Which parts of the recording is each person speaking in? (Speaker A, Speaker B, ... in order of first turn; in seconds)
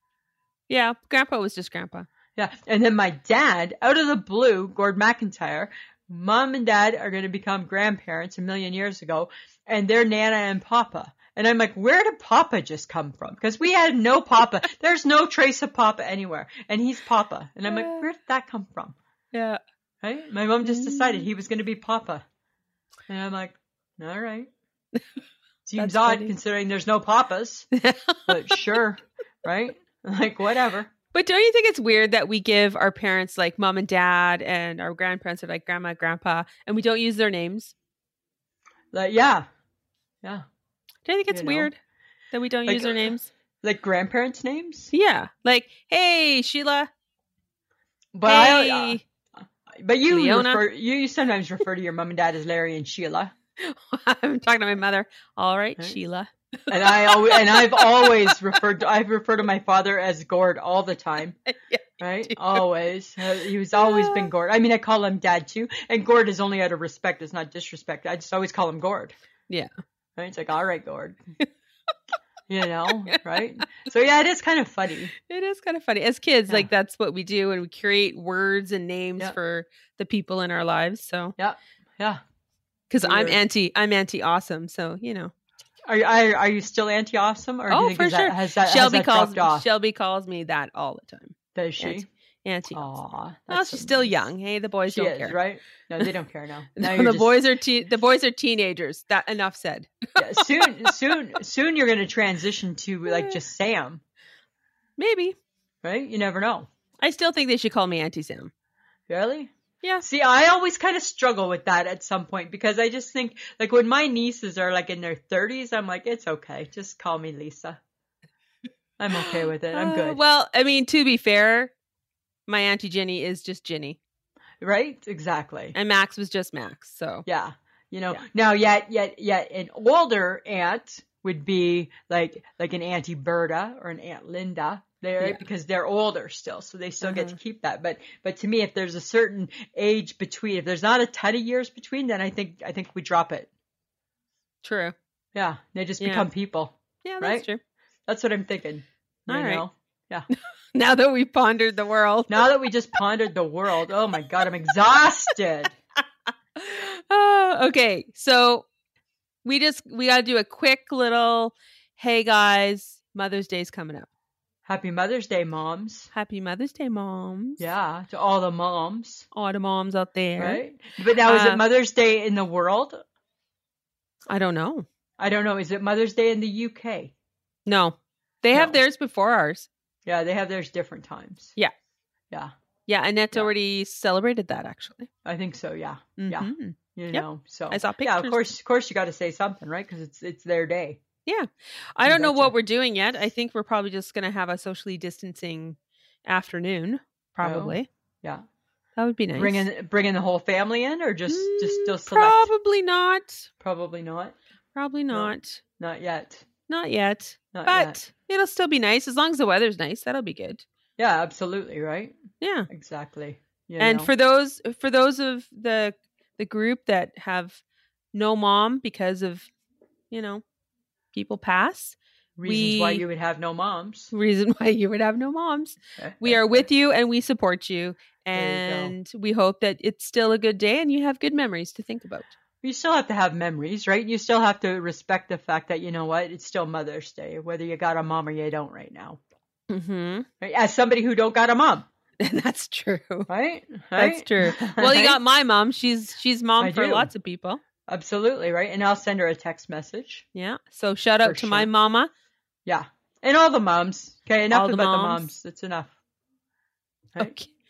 Speaker A: 0.7-2.1, 17.7-18.1, 19.3-19.6, 20.6-21.3, 25.8-26.3, 27.8-28.6, 31.1-37.7, 41.0-41.8, 42.3-43.3, 44.9-46.9, 48.3-49.0, 50.1-50.6, 53.6-58.5, 61.5-62.6, 63.8-64.3, 75.2-81.3, 82.9-85.3, 87.7-92.9, 93.5-95.4, 96.8-100.9, 103.1-103.4, 105.0-105.4, 107.0-108.5, 119.1-121.7, 122.5-124.0, 125.8-127.2, 137.0-137.4, 144.6-144.9, 146.0-146.3, 147.0-147.6, 149.3-149.6, 150.3-152.5, 156.6-158.7, 159.4-164.1, 166.1-167.6, 169.3-170.6, 171.3-171.6, 174.3-174.9, 177.7-179.7, 182.9-185.1, 186.2-188.4, 191.3-197.9, 199.0-199.7, 201.3-203.5, 204.8-205.6, 206.7-210.7, 212.4-212.7, 213.8-217.6, 218.1-219.5, 220.1-220.4, 221.1-223.0, 224.1-232.3, 239.7-240.3, 242.2-243.3, 244.0-247.6, 250.3-252.1, 254.5-255.3, 257.2-257.5
Speaker B: 2.4-18.9, 20.0-22.2, 23.1-24.5, 25.7-27.7, 28.3-30.9, 38.9-39.5, 41.3-41.7, 42.7-44.9, 48.1-49.0, 49.8-53.3, 56.7-61.4, 62.0-69.1, 70.2-71.2, 72.5-75.1, 81.4-82.2, 83.0-83.4, 85.8-89.7, 91.5-92.1, 92.7-94.2, 94.9-97.3, 100.2-104.0, 105.8-106.7, 109.1-109.5, 110.0-117.8, 119.0-120.2, 124.6-125.8, 127.3-143.5, 145.3-147.5, 148.1-150.3, 152.3-155.8, 164.7-166.1, 167.6-169.3, 170.4-173.0, 175.2-177.1, 180.1-181.6, 185.2-191.0, 192.1-192.5, 197.4-198.4, 199.4-202.5, 203.6-204.4, 205.1-206.4, 207.5-208.0, 211.0-212.2, 212.7-214.1, 222.4-224.1, 226.0-226.7, 228.4-228.9, 232.6-239.2, 240.4-241.9, 243.3-245.2, 246.6-247.1, 247.9-250.3, 251.2-251.7, 252.7-255.9